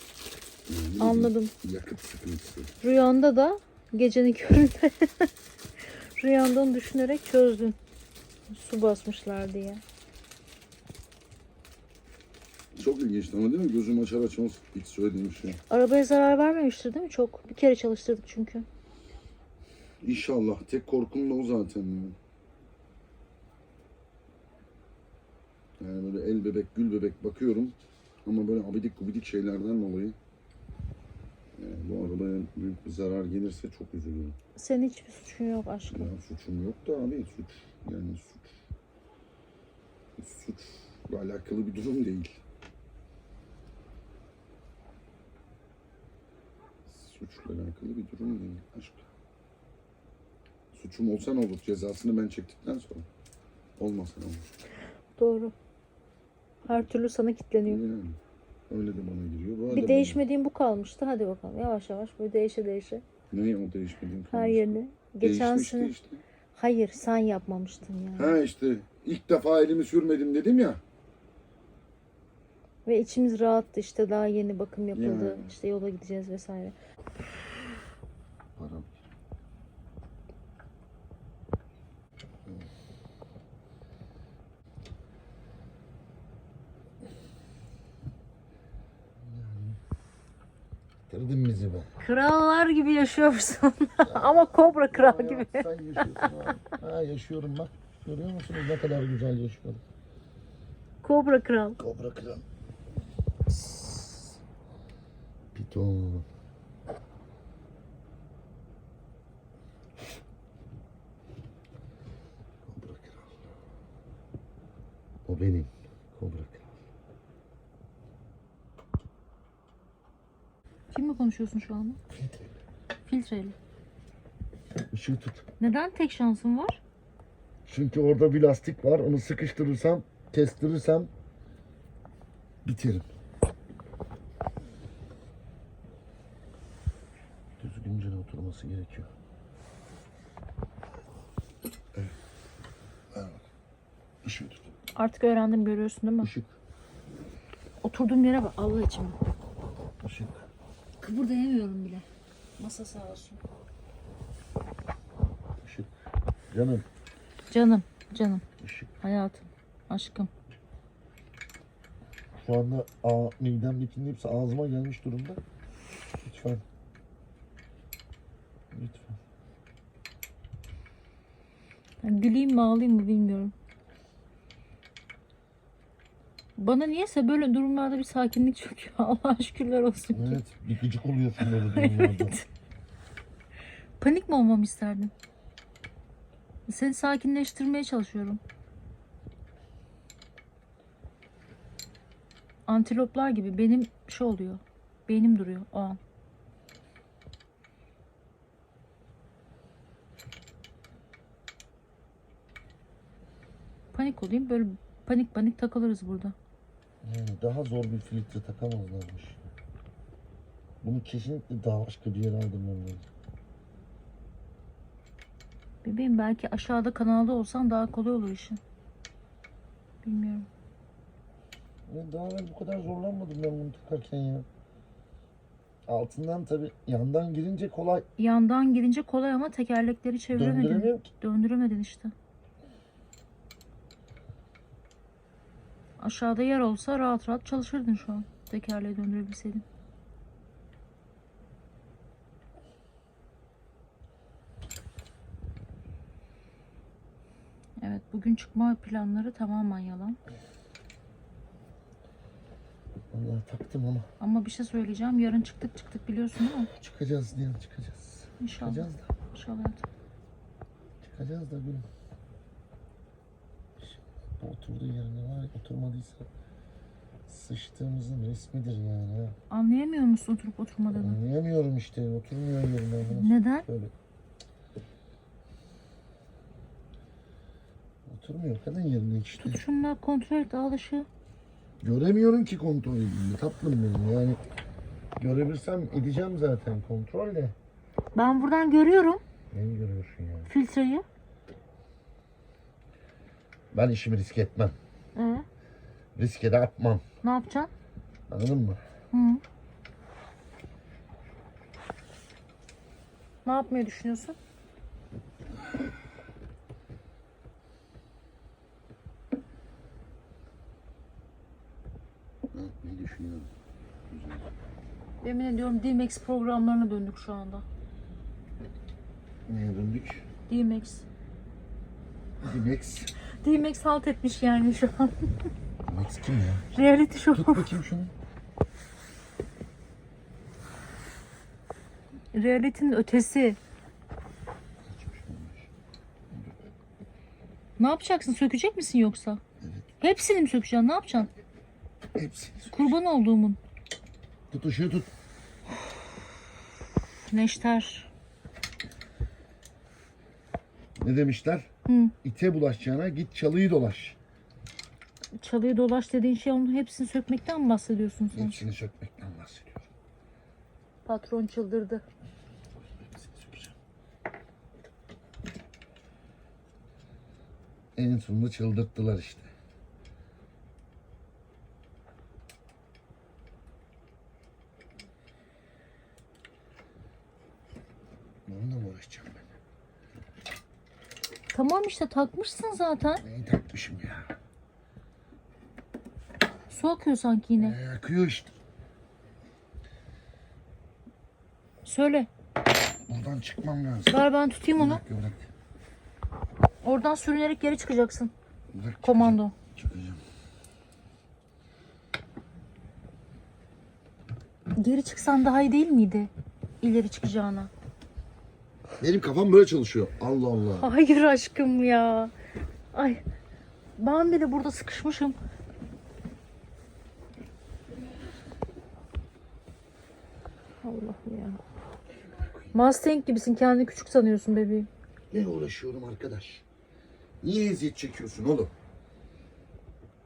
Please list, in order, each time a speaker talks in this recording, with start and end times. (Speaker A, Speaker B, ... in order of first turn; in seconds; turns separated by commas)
Speaker A: 0.7-2.7, Speaker B: 1.0-1.5, Speaker B: 2.8-5.3, Speaker B: 6.2-7.8, Speaker B: 8.5-9.8, Speaker A: 12.8-15.6, Speaker B: 15.7-18.7, Speaker A: 20.0-22.2, Speaker A: 25.8-30.2, Speaker A: 31.6-34.4, Speaker B: 34.6-36.1, Speaker A: 35.9-38.6, Speaker A: 40.2-42.4, Speaker A: 46.9-49.1, Speaker A: 50.7-53.1, Speaker A: 53.8-54.4, Speaker B: 55.2-55.5, Speaker B: 56.7-57.8, Speaker A: 57.7-60.2, Speaker B: 59.7-63.0, Speaker A: 63.3-66.2, Speaker B: 64.3-65.9, Speaker B: 66.6-68.4, Speaker A: 68.2-70.8, Speaker B: 72.9-76.8, Speaker A: 74.9-75.5, Speaker A: 78.6-79.0, Speaker A: 89.2-89.8, Speaker A: 91.1-91.9, Speaker B: 92.0-96.6, Speaker A: 94.0-99.8, Speaker B: 101.0-101.8, Speaker A: 101.8-102.4, Speaker B: 103.5-104.3, Speaker A: 105.5-106.3, Speaker A: 112.7-113.4, Speaker A: 115.3-116.7, Speaker B: 120.9-122.0, Speaker B: 123.1-123.6, Speaker A: 124.9-125.5, Speaker B: 125.6-126.8, Speaker A: 127.7-131.1, Speaker A: 132.7-133.1, Speaker A: 137.6-139.1, Speaker A: 143.1-143.4, Speaker A: 144.2-144.6, Speaker B: 145.0-146.3, Speaker A: 146.2-146.5, Speaker B: 147.8-149.2, Speaker A: 150.0-150.4, Speaker B: 151.0-152.1, Speaker B: 152.6-153.4, Speaker A: 155.6-155.9, Speaker A: 156.5-156.8, Speaker B: 157.5-158.4, Speaker A: 158.6-158.9, Speaker B: 159.0-160.3, Speaker A: 162.4-165.4, Speaker A: 166.2-166.6, Speaker A: 168.7-169.2, Speaker B: 172.0-173.5, Speaker B: 176.6-180.4, Speaker A: 180.1-182.4, Speaker B: 181.4-182.4, Speaker B: 184.0-185.1, Speaker B: 186.7-188.4, Speaker B: 192.7-196.0, Speaker B: 203.9-206.3, Speaker A: 207.0-209.4, Speaker A: 210.8-213.1, Speaker B: 215.8-218.6, Speaker B: 220.0-220.5, Speaker A: 221.9-224.5, Speaker A: 225.9-228.1, Speaker B: 228.2-232.1, Speaker A: 230.3-231.1, Speaker B: 236.0-239.6, Speaker B: 247.8-250.2, Speaker A: 253.1-254.1, Speaker B: 254.2-256.7, Speaker A: 256.7-259.1, Speaker B: 258.4-259.8, Speaker A: 261.0-261.9, Speaker A: 263.8-266.3, Speaker A: 267.3-269.4, Speaker B: 269.5-271.2, Speaker A: 270.9-273.9, Speaker B: 273.1-273.6, Speaker A: 278.1-279.6, Speaker B: 279.4-281.1, Speaker A: 281.8-284.4, Speaker A: 285.2-287.6, Speaker B: 288.1-289.2, Speaker A: 289.5-290.5, Speaker B: 290.5-291.0, Speaker A: 293.7-294.8, Speaker B: 295.2-295.5, Speaker A: 296.2-297.0, Speaker B: 297.2-297.7, Speaker A: 298.3-298.8, Speaker B: 299.1-299.4, Speaker B: 303.4-304.4, Speaker A: 312.5-313.5, Speaker A: 314.1-314.5, Speaker B: 315.2-317.6, Speaker A: 319.5-320.3, Speaker B: 320.5-321.1, Speaker A: 322.4-323.1, Speaker B: 323.4-325.3, Speaker A: 325.9-326.7, Speaker B: 326.7-327.8, Speaker A: 327.3-328.1, Speaker B: 332.3-333.6, Speaker A: 334.9-335.7, Speaker B: 337.8-339.4, Speaker A: 339.6-339.9, Speaker B: 340.0-341.3, Speaker A: 342.1-342.9, Speaker B: 342.7-343.6, Speaker A: 344.5-345.1, Speaker B: 347.3-348.1, Speaker A: 351.0-351.7, Speaker B: 351.9-352.1, Speaker A: 352.2-354.2, Speaker B: 355.4-358.6, Speaker A: 358.3-359.9, Speaker B: 361.1-362.0, Speaker A: 363.0-363.7, Speaker A: 368.0-369.5, Speaker A: 378.5-379.5, Speaker B: 381.5-383.2, Speaker A: 383.2-384.3, Speaker B: 386.7-387.8, Speaker A: 387.6-388.5, Speaker B: 391.9-392.3, Speaker A: 393.1-394.2, Speaker B: 394.1-395.0, Speaker A: 394.8-395.5, Speaker B: 396.8-398.3, Speaker A: 398.7-400.2, Speaker B: 399.0-399.5, Speaker B: 404.8-406.3, Speaker B: 406.8-407.7, Speaker A: 409.0-410.9, Speaker B: 410.8-412.3, Speaker B: 412.9-413.2, Speaker B: 414.0-415.4, Speaker B: 420.8-421.6, Speaker A: 422.2-422.7, Speaker B: 422.7-424.9, Speaker A: 425.3-426.6, Speaker A: 427.4-428.7